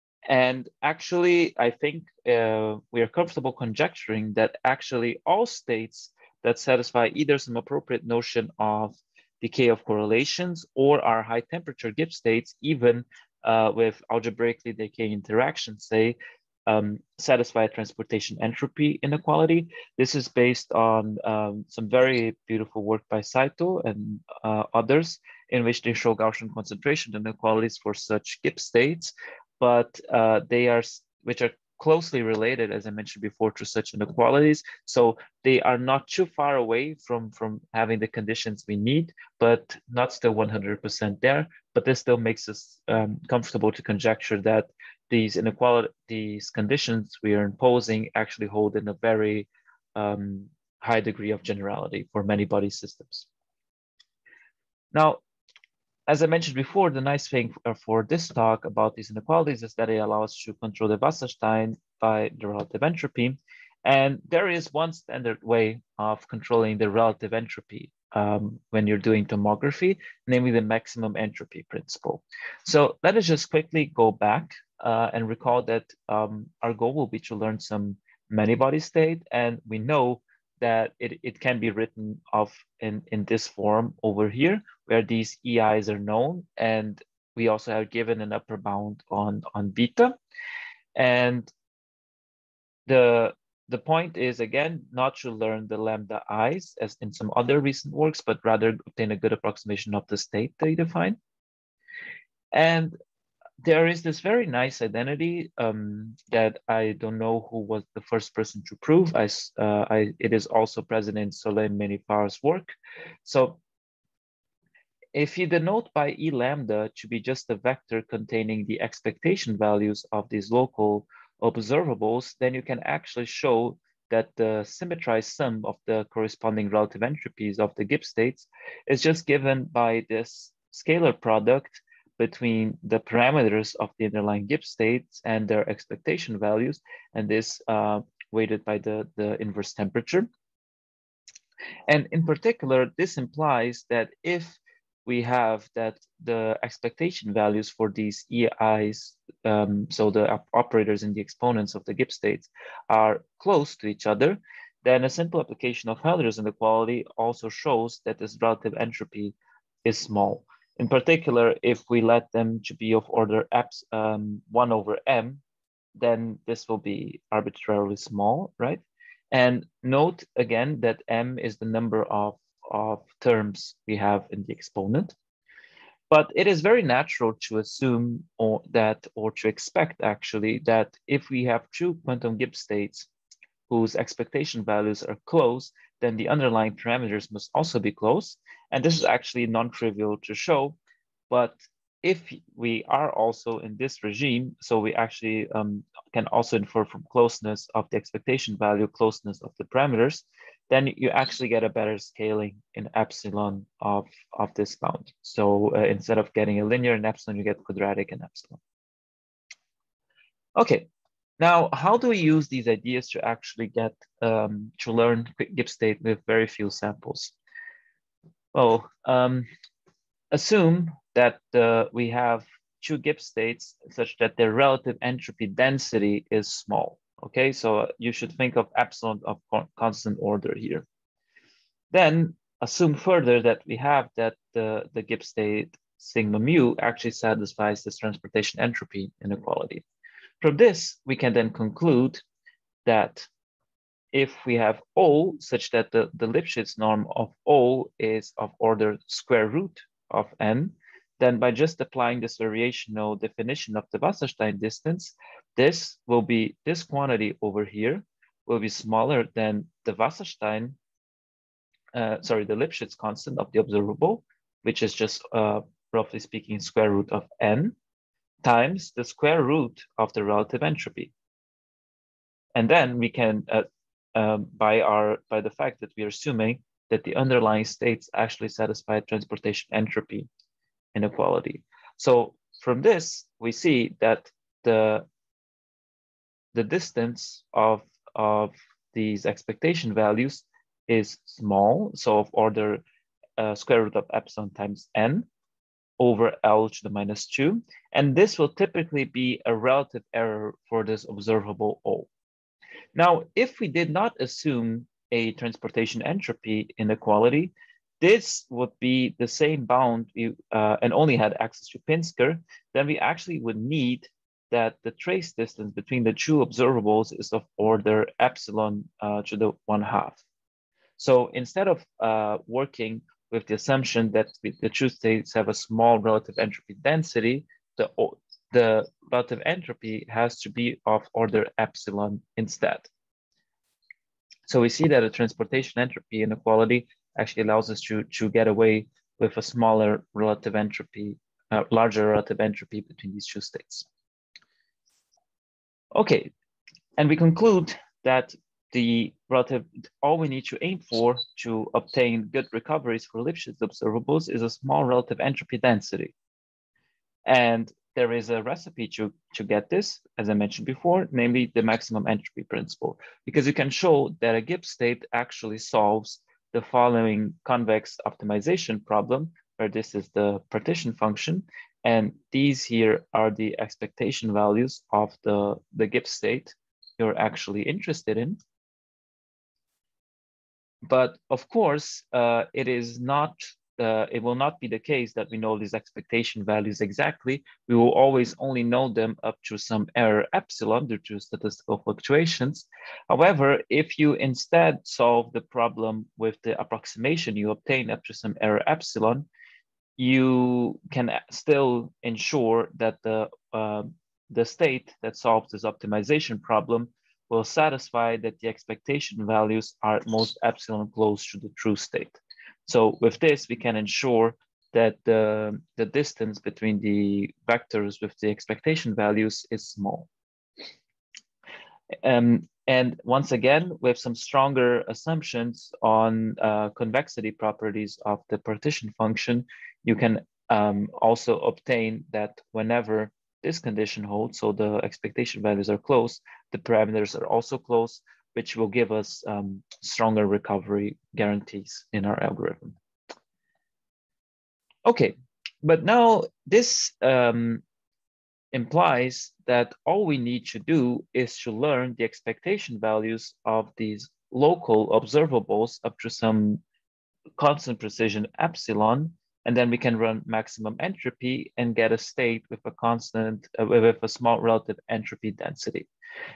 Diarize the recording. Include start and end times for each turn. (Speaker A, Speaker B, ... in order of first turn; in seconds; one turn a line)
Speaker A: 0.3-53.3
Speaker A: 54.9-55.2
Speaker A: 56.1-90.2
Speaker A: 90.9-91.5
Speaker A: 92.9-101.2
Speaker A: 102.5-102.9
Speaker A: 103.6-112.7
Speaker A: 113.2-113.6
Speaker A: 115.1-140.3
Speaker A: 141.9-165.4
Speaker A: 165.9-175.1
Speaker A: 176.1-183.1
Speaker A: 183.7-190.8
Speaker A: 191.3-208.6
Speaker A: 210.6-210.9
Speaker A: 211.4-217.3
Speaker A: 218.5-219.5
Speaker A: 220.3-230.9
Speaker A: 231.9-239.8
Speaker A: 240.4-242.2
Speaker A: 242.8-243.3
Speaker A: 244.1-260.8
Speaker A: 261.9-267.7
Speaker A: 268.4-271.1
Speaker A: 272.6-280.3
Speaker A: 280.9-285.1
Speaker A: 286.5-292.8
Speaker A: 293.4-295.2
Speaker A: 296.0-302.1
Speaker A: 302.9-320.2
Speaker A: 321.0-332.9
Speaker A: 334.5-343.9
Speaker A: 345.9-346.3
Speaker A: 347.0-356.1
Speaker A: 357.2-378.4
Speaker A: 380.9-399.3
Speaker A: 400.0-420.1
Speaker A: 422.0-442.8
Speaker A: 444.9-447.6
Speaker A: 448.5-456.6
Speaker A: 457.4-465.9